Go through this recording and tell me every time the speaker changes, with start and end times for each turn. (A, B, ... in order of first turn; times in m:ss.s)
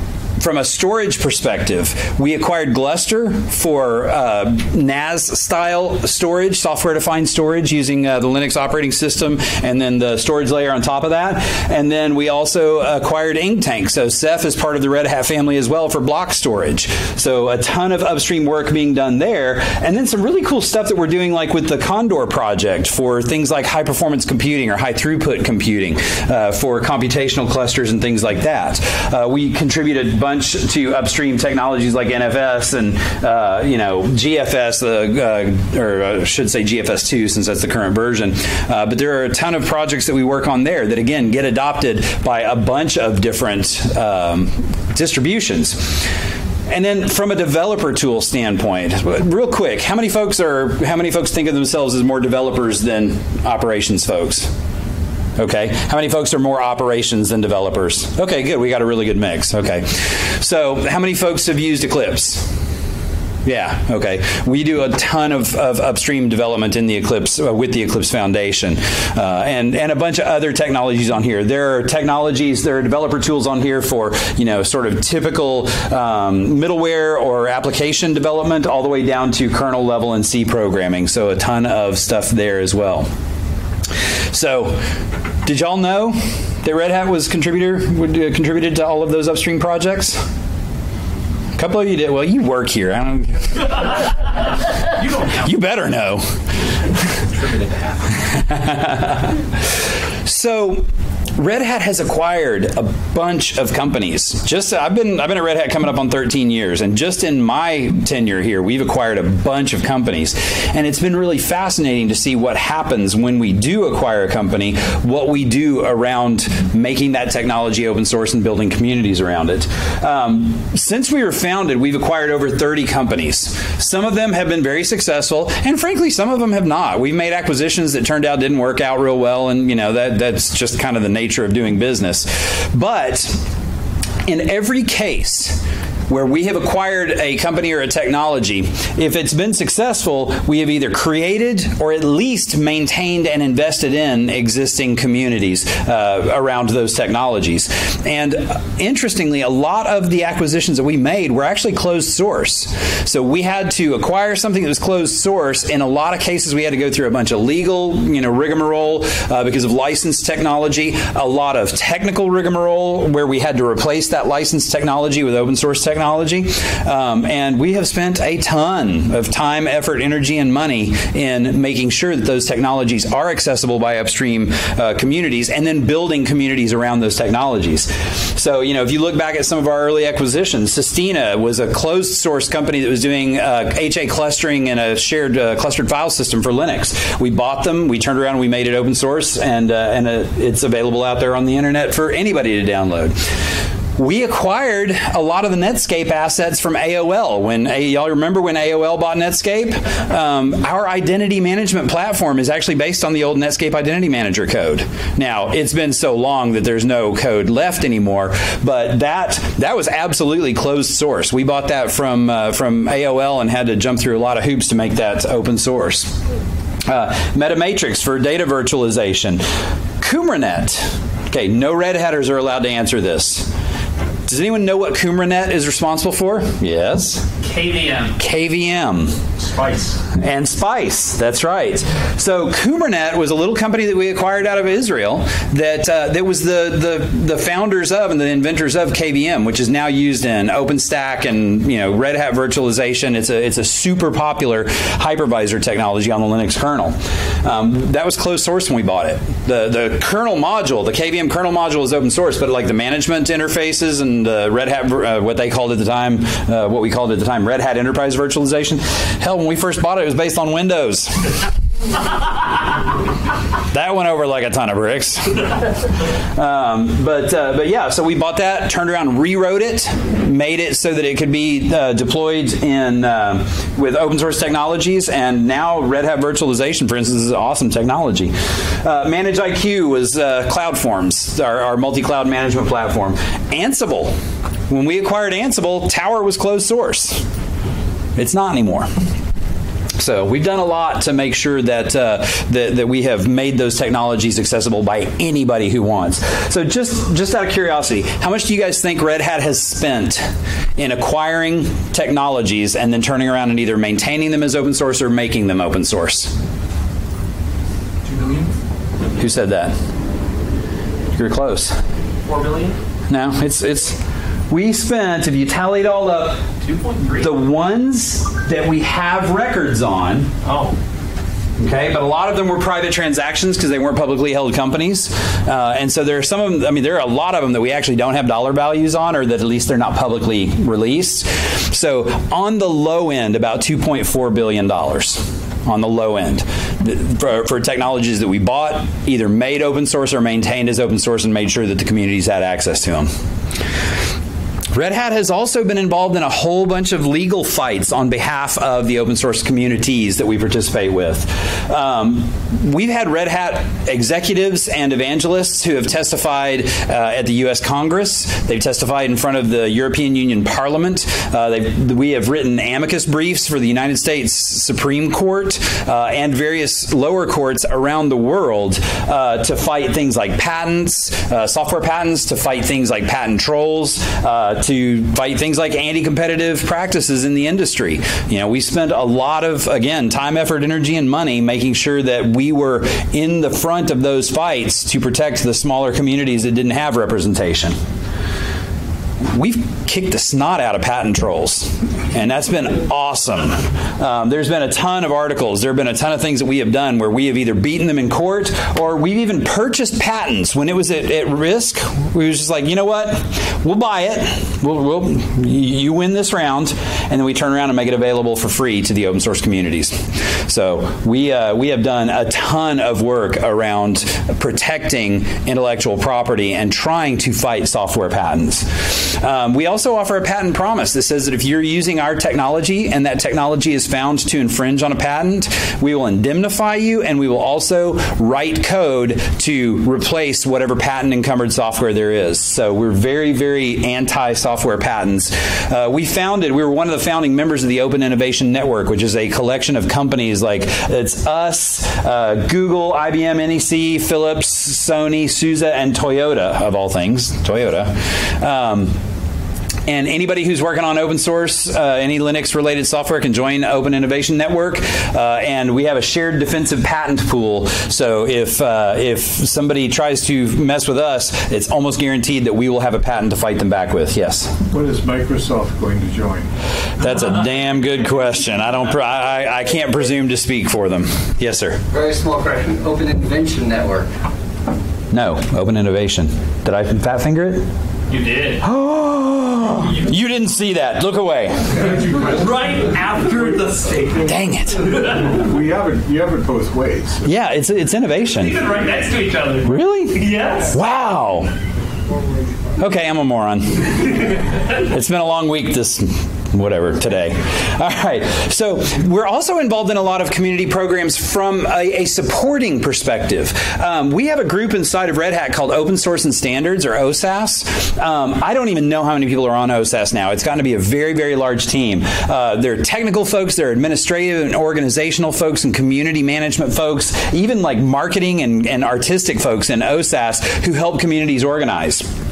0:00.4-0:46.1 A
0:46.7-0:54.5 A
0:55.4-1:02.5 A
1:03.4-1:23.1 A
1:24.3-1:24.8 A
1:25.4-1:30.2 A
1:31.6-1:33.9 A
1:35.2-1:36.2 A
1:38.2-1:39.3 A
1:40.2-1:40.8 A
1:41.4-2:13.3 A
2:14.3-3:13.2 A
3:14.0-3:36.1 A
3:36.9-3:39.4 A
3:40.0-3:43.5 A
3:44.3-3:47.3 A
3:47.4-3:48.2 B
3:48.2-3:49.2 A
3:49.4-3:50.0 B
3:50.1-4:21.2 A
4:23.7-4:25.4 A
4:26.4-4:44.1 A
4:44.7-4:47.2 A
4:48.2-4:48.9 A
4:50.0-5:06.3 A
5:08.1-5:08.5 B
5:09.2-5:09.7 A
5:11.2-5:11.8 A
5:12.3-5:12.8 B
5:13.1-5:14.0 A
5:14.5-5:16.4 A
5:16.6-5:17.3 B
5:17.2-5:20.3 A
5:20.4-5:20.8 B
5:21.6-5:43.1 A
5:44.7-6:27.8 A
6:29.3-7:29.0 A
7:29.9-7:44.5 A
7:44.7-7:46.5 C
7:47.0-7:51.8 A
7:51.9-7:54.1 D
7:55.1-7:57.6 A
7:58.1-7:58.6 B
7:58.6-8:01.8 A
8:01.8-8:02.4 C
8:02.0-8:04.3 B
8:04.2-8:04.9 A
8:05.0-8:07.3 C
8:07.2-8:08.6 A
8:08.3-8:10.8 B
8:09.6-8:11.5 A
8:12.8-8:14.1 A
8:14.7-8:42.1 A